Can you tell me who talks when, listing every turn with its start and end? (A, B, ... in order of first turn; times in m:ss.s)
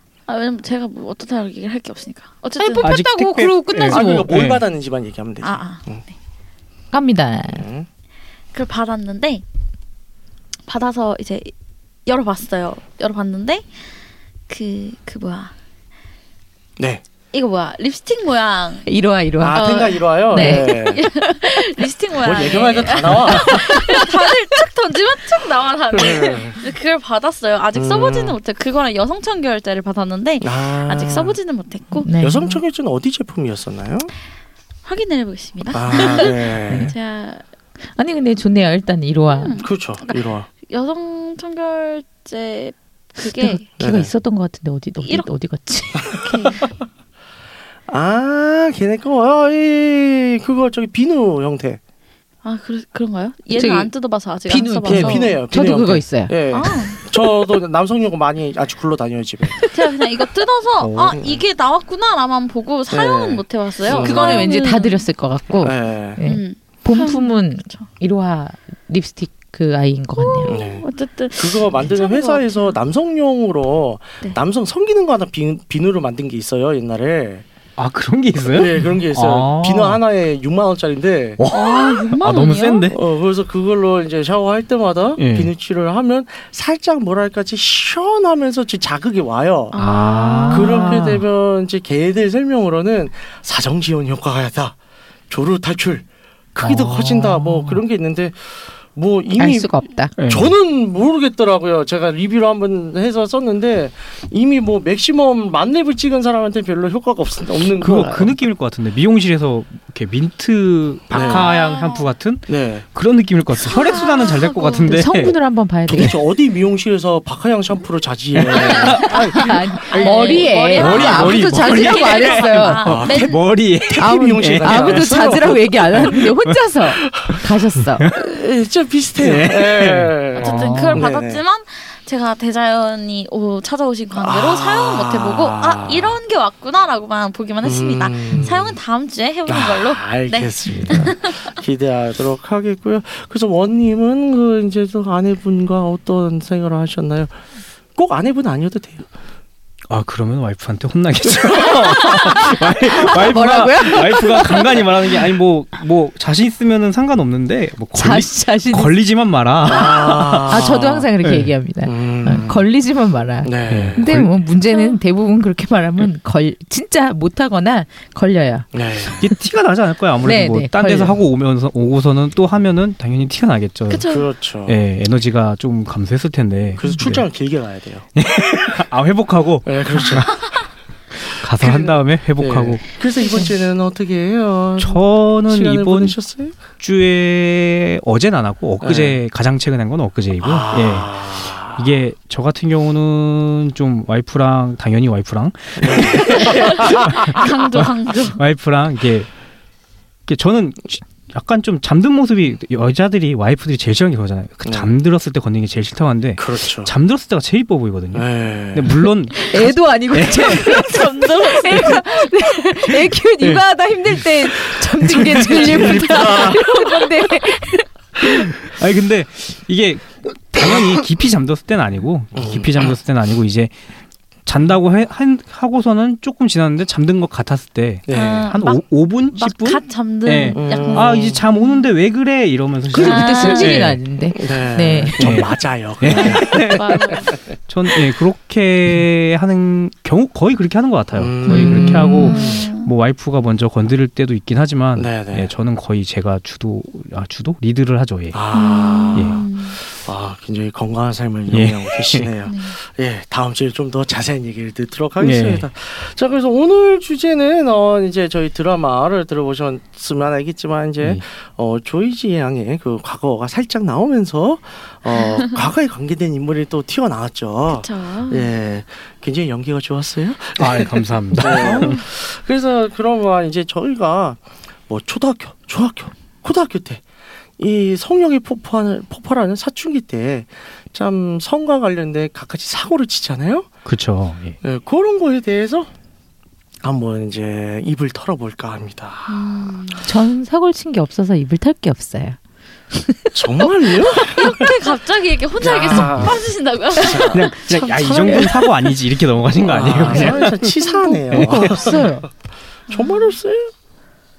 0:00.3-0:02.9 A
0:02.6-0:04.3 B
0:02.8-0:04.6 C
0:03.9-0:06.0 D
0:05.4-0:06.0 A
0:06.9-0:07.6 B
0:07.5-0:07.9 D
0:08.5-0:09.4 A
0:10.7-0:11.5 A
0:12.0-0:13.6 A
0:14.5-0:15.5 A
0:17.3-0:18.8 A
0:18.8-0:19.6 B
0:19.4-0:21.0 D
0:19.5-0:32.1 A
0:20.3-0:21.6 B
0:22.2-0:23.7 D
0:23.4-0:24.3 B
0:25.9-0:26.6 D
0:27.7-0:28.4 D
0:30.4-0:31.3 D
0:32.0-0:32.6 B
0:32.2-0:34.1 D
0:34.8-0:37.4 A
0:35.7-0:36.9 D
0:36.7-0:36.9 B
0:38.0-0:39.6 B
0:39.3-0:43.6 A
0:39.6-0:40.5 D
0:43.2-0:46.6 B
0:43.8-0:44.1 D
0:45.0-0:45.3 A
0:46.1-0:46.7 A
0:47.9-0:51.8 D
0:52.4-0:55.3 A
0:53.5-0:53.9 B
0:54.4-0:56.3 B
0:54.9-0:59.6 D
0:56.5-0:57.0 A
0:59.5-0:59.8 B
0:59.6-1:05.0 A
1:00.8-1:01.2 C
1:01.1-1:01.4 D
1:02.9-1:04.5 D
1:03.9-1:10.5 B
1:05.6-1:06.2 D
1:06.2-1:07.9 A
1:10.2-1:12.8 A
1:10.4-1:17.4 D
1:17.8-1:20.0 C
1:18.5-1:21.4 D
1:21.4-1:23.0 C
1:21.5-1:22.9 A
1:22.9-1:29.8 D
1:25.2-1:25.5 C
1:29.7-1:30.9 A
1:29.8-1:31.2 C
1:30.0-1:30.7 B
1:30.5-1:34.8 D
1:35.3-1:48.3 D
1:36.6-1:37.8 C
1:39.4-1:40.1 B
1:40.2-1:40.5 C
1:47.8-1:55.4 C
1:47.8-1:48.3 B
1:51.1-1:51.5 D
1:51.1-1:52.1 A
1:52.5-1:52.8 D
1:53.6-1:55.1 A
1:54.9-1:56.2 B
1:55.9-1:59.1 D
1:58.4-2:05.4 C
1:58.7-2:03.4 A
1:58.8-2:02.8 B
2:02.8-2:06.3 D
2:04.0-2:08.1 B
2:05.9-2:06.3 C
2:07.9-2:08.2 C
2:08.1-2:11.4 D
2:09.2-2:11.0 C
2:10.3-2:21.5 A
2:14.1-2:16.2 D
2:17.6-2:18.8 D
2:19.5-2:27.3 D
2:20.7-2:21.1 C
2:28.0-2:29.1 D
2:29.9-2:41.5 C
2:31.2-2:31.7 D
2:31.9-2:34.9 B
2:37.9-2:38.9 B
2:39.6-2:41.0 D
2:40.4-2:48.7 B
2:41.8-2:42.6 D
2:43.4-2:44.1 D
2:43.7-2:44.3 C
2:44.7-2:45.0 A
2:48.7-2:49.2 D
2:49.1-2:57.3 C
2:50.2-2:51.2 B
2:53.9-2:54.3 A
2:54.1-2:54.8 D
2:56.7-2:58.1 D
2:58.2-3:00.6 C
2:59.6-3:00.6 D
3:01.3-3:02.8 C
3:01.6-3:06.6 D
3:04.8-3:06.2 C
3:06.7-3:19.3 C
3:08.8-3:09.2 D
3:10.4-3:11.9 D
3:15.8-3:17.4 D
3:16.3-3:18.4 A
3:20.3-3:30.9 C
3:24.6-3:24.9 D
3:26.4-3:26.9 D
3:28.1-3:29.1 D
3:29.4-3:38.5 B
3:30.4-3:32.5 A
3:35.1-3:36.7 C
3:35.3-3:36.4 D
3:35.9-3:36.8 A
3:38.2-3:43.7 C
3:42.3-3:43.0 D
3:44.4-3:54.0 C
3:48.1-3:48.5 D
3:48.1-3:51.8 A
3:50.5-3:51.4 D
3:52.9-3:55.4 B
3:53.0-3:53.8 A
3:54.3-3:57.5 D
3:55.2-3:57.1 C
3:56.0-3:57.3 A
3:57.7-4:08.4 C
4:01.1-4:02.6 D
4:01.5-4:02.9 A
4:01.5-4:02.3 B
4:05.0-4:05.5 D
4:08.3-4:09.4 D
4:08.5-4:09.8 A
4:09.1-4:09.4 C
4:09.9-4:37.0 D
4:11.5-4:12.3 C
4:12.4-4:12.8 A
4:15.2-4:15.6 C
4:27.7-4:28.5 A
4:30.6-4:32.0 C
4:31.6-4:31.8 A
4:37.6-4:43.7 D
4:43.8-4:44.6 C
4:44.6-4:45.9 D
4:46.8-4:49.4 D
4:49.3-4:50.0 A
4:50.0-4:52.4 B
4:52.9-4:53.7 B
4:53.3-4:54.7 D
4:54.1-4:57.6 A
4:55.6-4:58.6 D
4:55.9-4:56.3 C
4:57.3-5:00.7 C
4:57.9-4:58.5 B
4:59.6-5:02.2 D
5:00.1-5:01.0 A
5:01.3-5:02.0 C
5:01.3-5:02.3 B
5:02.9-5:03.4 A
5:02.9-5:03.7 D